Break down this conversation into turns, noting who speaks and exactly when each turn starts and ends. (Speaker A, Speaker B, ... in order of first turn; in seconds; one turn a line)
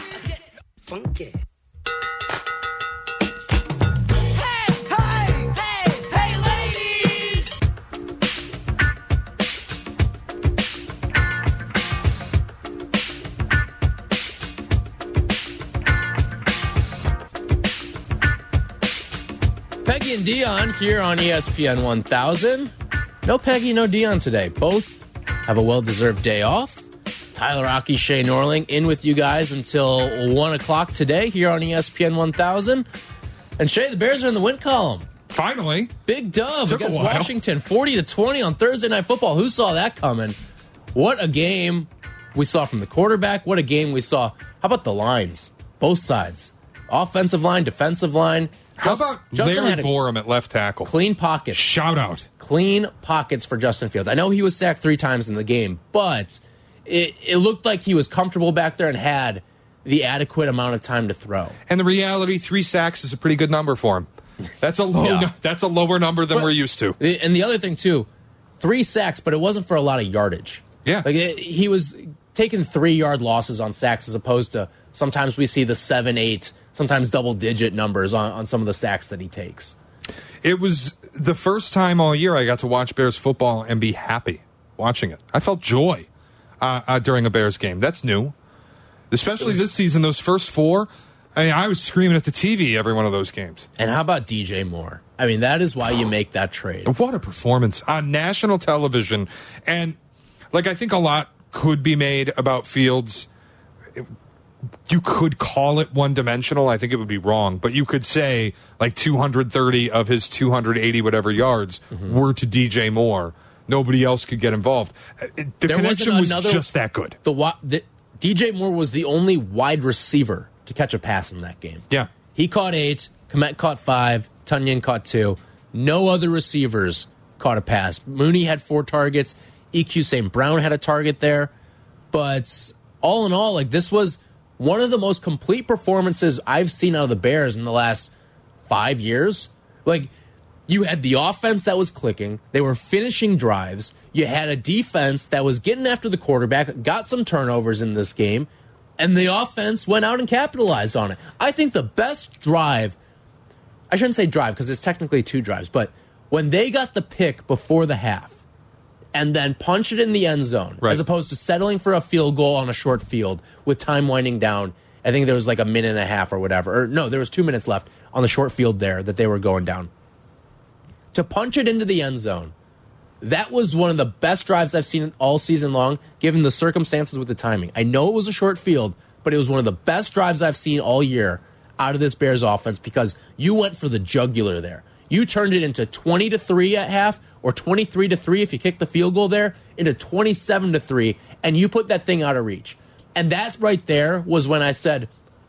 Speaker A: 0.9-1.3
Speaker A: 4.9-7.5
Speaker B: 19.8-22.7
Speaker B: 23.2-32.9
Speaker B: 33.6-35.1
Speaker C: 35.3-36.0
Speaker B: 36.1-40.4
Speaker C: 36.6-37.3
Speaker B: 40.9-49.9
Speaker C: 48.8-50.9
Speaker B: 50.8-51.6
Speaker C: 51.5-52.3
Speaker B: 52.4-61.5
Speaker C: 61.7-64.1
Speaker C: 64.6-67.0
Speaker B: 65.0-65.3
Speaker B: 66.3-68.1
Speaker B: 68.6-79.8
Speaker C: 80.4-86.1
Speaker C: 86.6-88.3
Speaker C: 89.1-93.7
Speaker B: 93.8-96.9
Speaker C: 96.8-100.0
Speaker C: 100.5-103.3
Speaker C: 104.9-117.2
Speaker B: 115.7-116.6
Speaker B: 117.2-131.5
Speaker B: 132.1-138.1
Speaker B: 138.7-140.1
Speaker B: 140.7-152.9
Speaker B: 153.9-158.4
Speaker B: 159.1-169.9
Speaker B: 171.1-172.5
Speaker B: 173.2-195.1